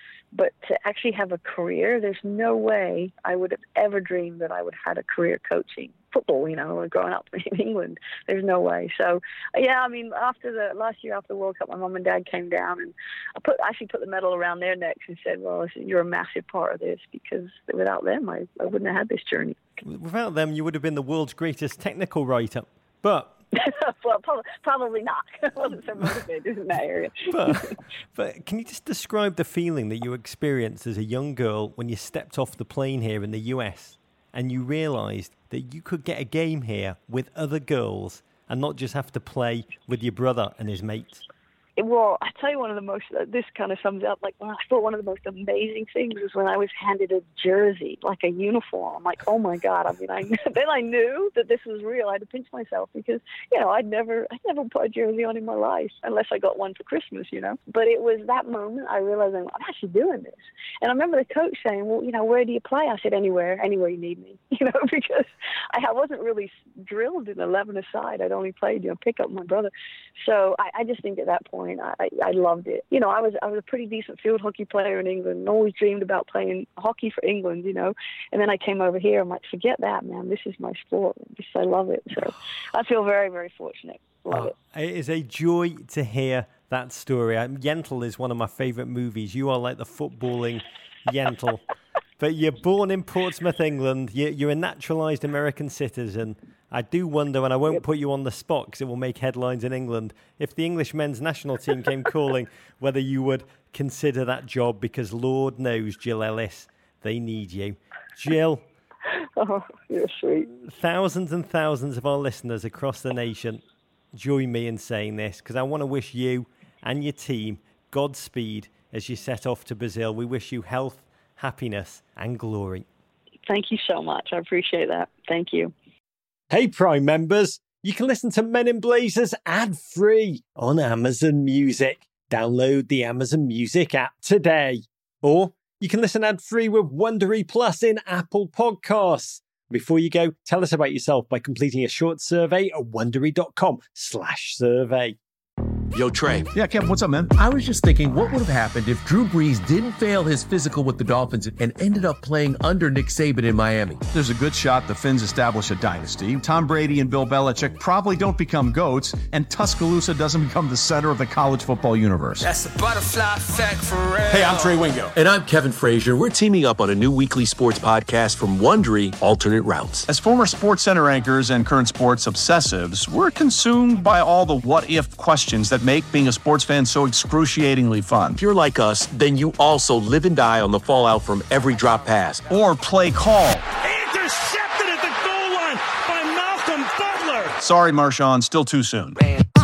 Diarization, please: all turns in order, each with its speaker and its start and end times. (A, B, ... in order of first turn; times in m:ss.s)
0:00.3-0:19.6 A
0:19.8-0:23.4 B
0:23.5-0:27.7 A
0:27.3-0:41.2 B
0:41.8-1:24.5 A
1:24.3-1:31.6 B
1:32.2-1:48.6 B
1:49.4-1:50.5 A
1:50.6-1:53.6 B
1:54.1-2:02.8 B
2:03.5-2:05.7 A
2:06.5-2:25.2 B
2:25.9-2:26.5 C
2:26.5-2:27.3 D
2:27.3-2:34.0 C
2:34.1-2:42.4 D
2:42.4-2:45.0 E
2:44.3-2:45.1 D
2:45.1-2:50.1 C
2:50.1-2:58.4 D
2:58.4-3:02.5 C
3:02.5-3:03.6 D
3:03.8-3:07.6 F
3:07.6-3:09.2 D